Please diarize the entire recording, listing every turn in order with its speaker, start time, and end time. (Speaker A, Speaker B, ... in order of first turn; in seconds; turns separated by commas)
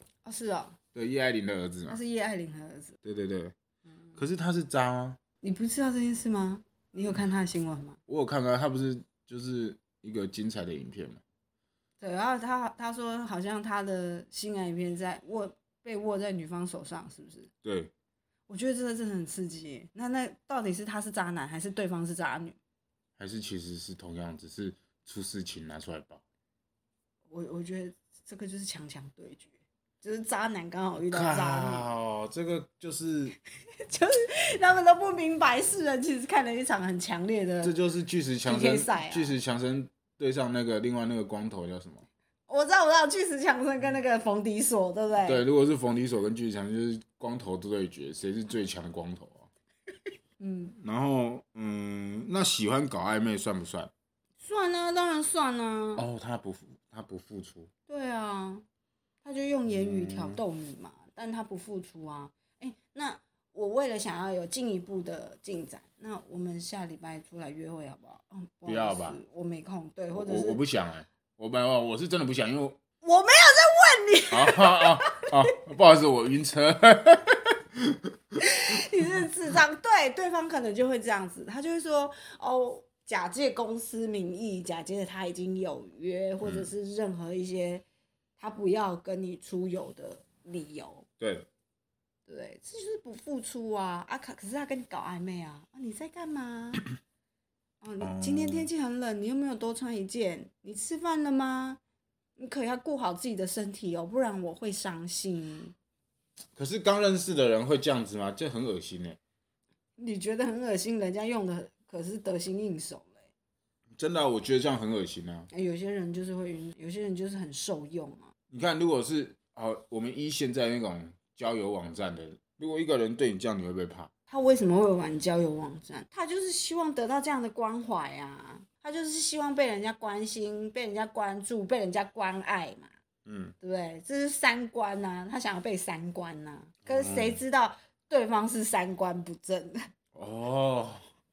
Speaker A: 0.2-0.8, Speaker B: 0.9-2.0, Speaker A: 1.9-3.0, Speaker B: 3.0-3.5, Speaker B: 4.2-5.2, Speaker A: 5.4-8.0, Speaker B: 8.1-11.2, Speaker A: 12.0-17.5, Speaker B: 17.6-17.9, Speaker A: 18.5-22.6, Speaker B: 23.2-26.2, Speaker A: 27.3-31.9, Speaker B: 31.1-33.4, Speaker A: 33.9-37.8, Speaker B: 37.6-42.0, Speaker A: 38.4-39.4, Speaker A: 42.5-45.4, Speaker B: 45.2-49.5, Speaker A: 50.4-50.8, Speaker B: 50.8-53.9, Speaker A: 54.4-56.0, Speaker B: 56.0-57.7, Speaker A: 57.9-58.6, Speaker A: 59.2-70.6, Speaker B: 59.7-60.4, Speaker B: 68.7-69.2, Speaker B: 70.1-72.8, Speaker A: 73.0-75.3, Speaker B: 74.3-78.0, Speaker A: 78.4-87.8, Speaker B: 86.4-86.7, Speaker A: 88.4-91.0, Speaker B: 91.2-91.5, Speaker A: 92.3-96.8, Speaker A: 97.8-101.8, Speaker B: 98.0-98.7, Speaker A: 102.4-105.7, Speaker B: 106.5-109.2, Speaker A: 110.0-113.2, Speaker B: 114.0-115.5, Speaker A: 115.5-118.3, Speaker B: 118.5-124.1, Speaker A: 124.3-132.9, Speaker B: 133.2-133.5, Speaker A: 133.6-139.8, Speaker B: 136.9-137.4, Speaker B: 140.1-141.0